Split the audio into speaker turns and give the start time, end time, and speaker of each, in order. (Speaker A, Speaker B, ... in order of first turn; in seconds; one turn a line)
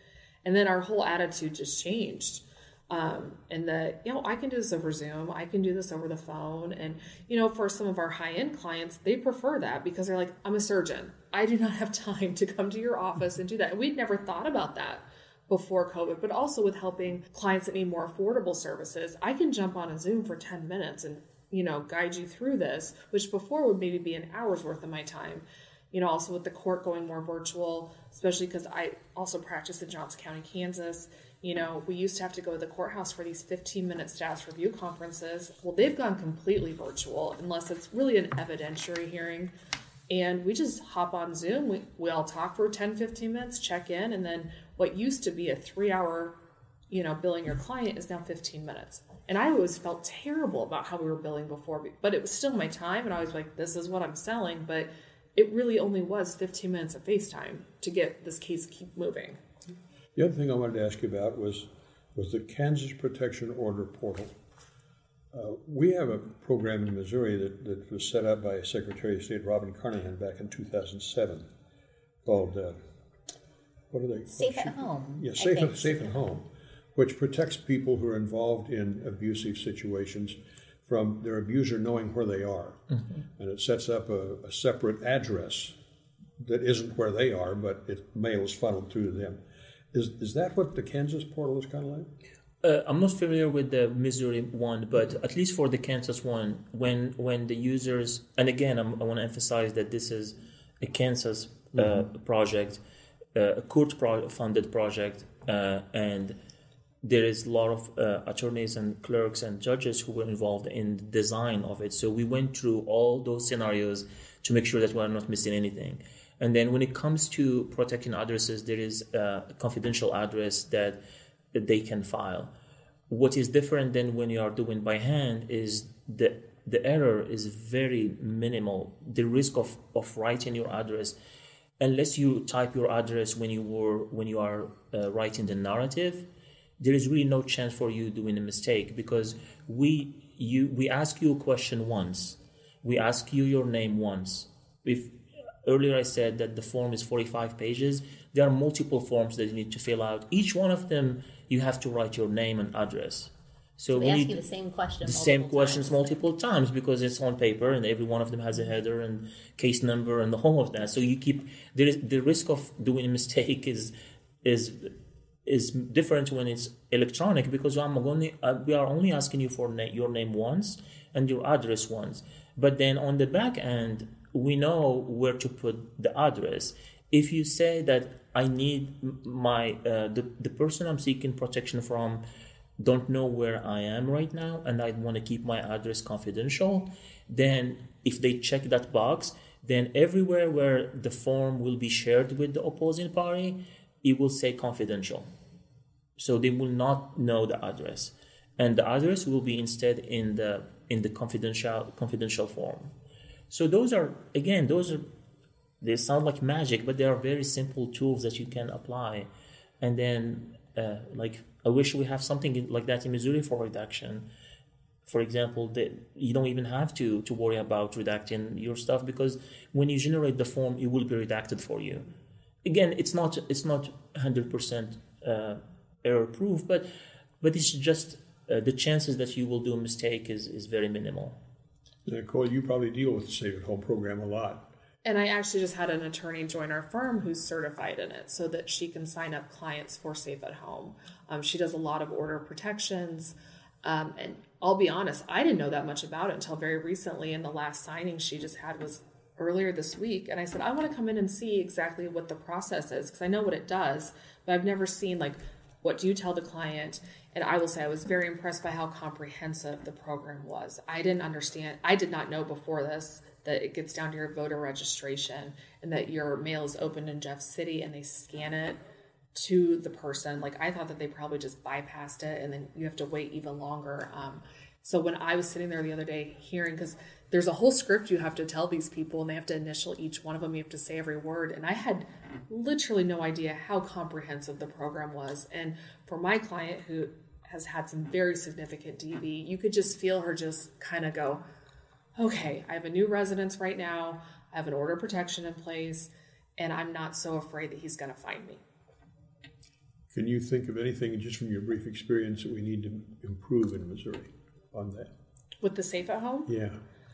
Speaker A: 0.4-39.5
Speaker A: 40.1-46.4
Speaker A: 46.9-59.4
Speaker B: 60.1-64.3
Speaker B: 65.3-71.5
Speaker B: 72.2-72.8
Speaker B: 73.9-82.8
Speaker C: 74.3-76.2
Speaker B: 83.3-85.8
Speaker B: 86.4-89.4
Speaker B: 89.9-92.1
Speaker D: 92.6-102.8
Speaker D: 103.3-106.3
Speaker D: 107.0-121.0
Speaker D: 121.5-122.5
Speaker D: 123.1-131.2
Speaker D: 131.8-136.3
Speaker D: 136.8-154.4
Speaker C: 153.9-156.1
Speaker D: 155.0-164.9
Speaker D: 165.4-182.2
Speaker D: 182.8-195.3
Speaker D: 196.2-202.9
Speaker D: 203.5-205.1
Speaker D: 205.8-209.3
Speaker D: 209.8-214.3
Speaker D: 215.1-222.1
Speaker D: 222.6-226.9
Speaker D: 227.4-231.4
Speaker B: 232.1-234.7
Speaker A: 235.0-268.8
Speaker A: 269.3-291.4
Speaker A: 292.1-298.6
Speaker B: 300.1-305.1
Speaker A: 305.6-306.5
Speaker B: 306.4-306.8